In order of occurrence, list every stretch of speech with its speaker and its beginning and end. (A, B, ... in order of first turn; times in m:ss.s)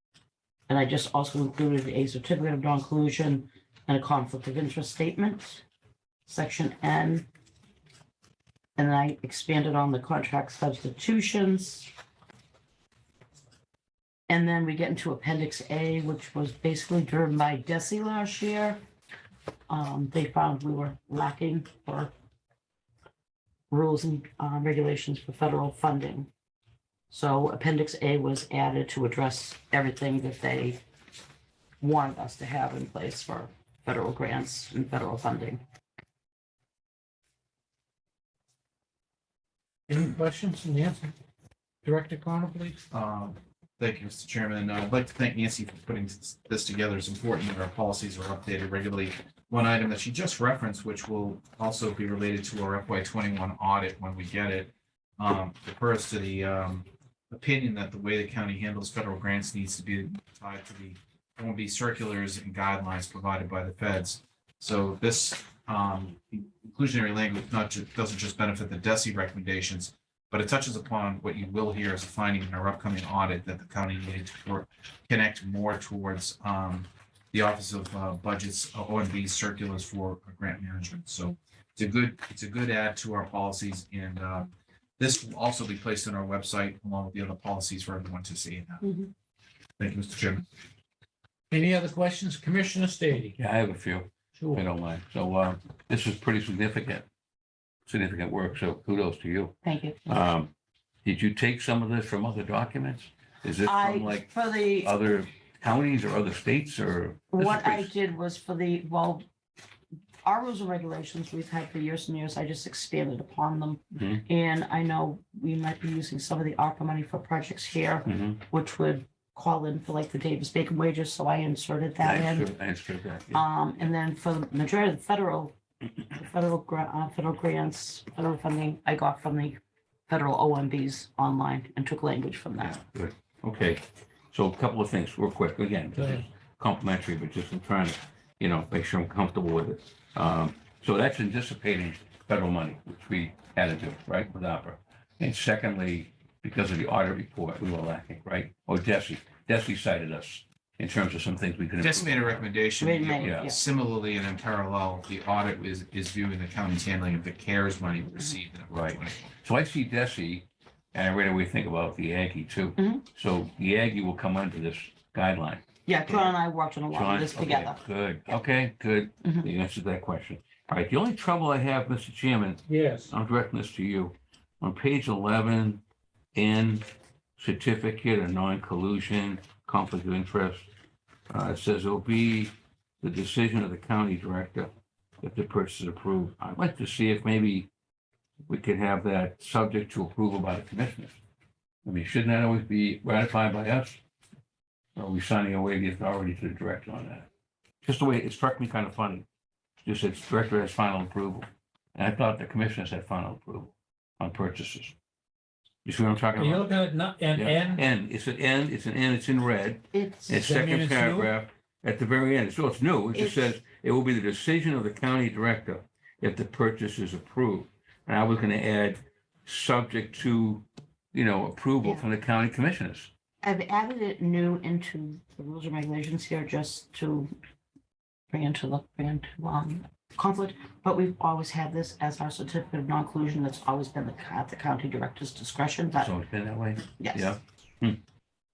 0:00.7-0:05.6 A
0:06.3-0:07.3 A
0:08.8-0:11.9 A
0:14.3-0:18.8 A
0:19.7-0:22.1 A
0:23.7-0:26.3 A
0:27.1-0:30.8 A
0:31.8-0:35.6 A
0:39.9-0:41.1 B
0:41.8-0:42.8 B
0:42.9-1:28.9 C
1:28.8-1:29.1 A
1:29.8-1:30.4 C
1:31.5-1:33.4 B
1:33.4-1:37.1 D
1:34.4-1:34.6 B
1:37.9-1:39.6 D
1:39.6-1:40.0 A
1:40.1-1:40.5 D
1:41.0-1:47.9 D
1:43.6-1:44.9 A
1:47.3-1:49.2 A
1:50.2-2:02.5 A
1:54.0-1:54.2 D
1:58.1-1:58.4 D
2:02.0-2:03.5 D
2:03.3-2:05.6 A
2:06.1-2:12.8 A
2:12.6-2:32.4 D
2:16.0-2:16.2 B
2:31.8-2:39.3 C
2:32.8-2:33.6 A
2:33.2-2:33.5 D
2:38.7-2:46.4 D
2:42.8-2:43.0 A
2:45.8-2:47.8 A
2:46.9-2:55.8 D
2:49.2-2:49.5 A
2:52.7-2:53.1 B
2:56.3-2:56.8 D
2:57.4-3:00.7 D
3:01.3-3:04.7 D
3:05.2-3:07.7 D
3:08.5-3:11.2 D
3:11.8-3:14.0 D
3:15.0-3:17.3 D
3:17.8-3:19.2 D
3:19.8-3:24.9 D
3:25.8-3:26.7 D
3:26.4-3:27.8 B
3:27.3-3:43.1 D
3:29.9-3:30.5 A
3:30.3-3:31.3 B
3:33.1-3:33.5 A
3:43.4-3:47.3 A
3:48.3-3:56.1 A
3:56.0-3:58.0 D
3:57.0-3:57.4 A